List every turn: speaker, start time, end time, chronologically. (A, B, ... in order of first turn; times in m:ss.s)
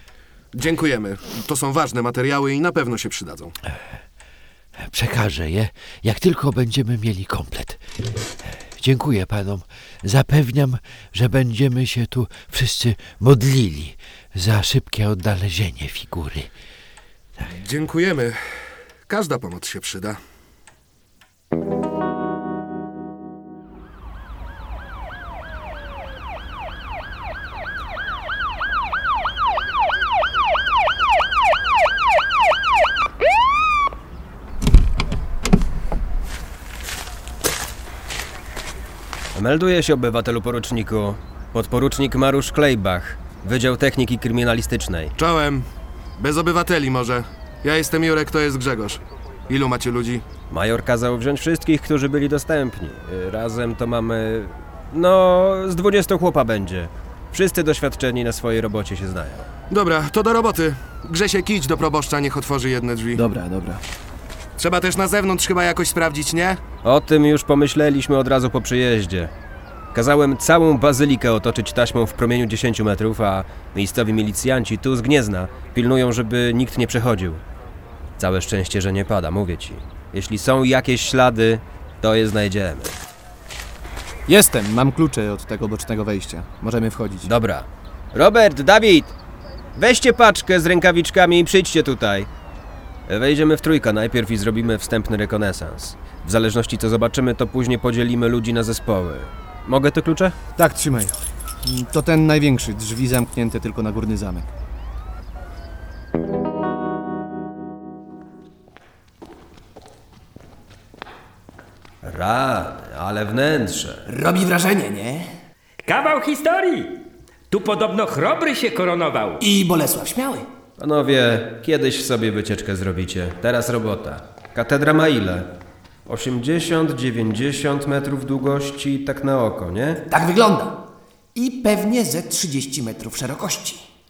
0:00.5-0:03.5 A
0:04.8-0:07.8 B
0:08.5-0:16.5 B
0:17.5-0:18.4 A
0:19.1-0:20.2 A
0:39.4-0:45.1 C
0:45.2-0:45.7 A
0:46.2-0:50.2 A
0:50.5-0:59.5 C
0:59.7-1:03.2 A
1:03.2-1:03.8 D
1:04.6-1:06.6 A
1:06.8-1:09.3 C
1:09.9-1:17.4 C
1:18.2-1:23.0 C
1:24.3-1:27.3 D
1:27.2-1:29.2 C
1:29.8-1:32.3 C
1:33.1-1:40.4 C
1:40.6-1:44.5 D
1:52.0-1:54.0 C
1:54.1-1:55.3 E
1:55.8-1:59.4 F
1:59.4-2:00.5 E
2:00.8-2:05.5 C
2:06.1-2:10.0 C
2:10.1-2:10.8 E
2:11.4-2:13.8 E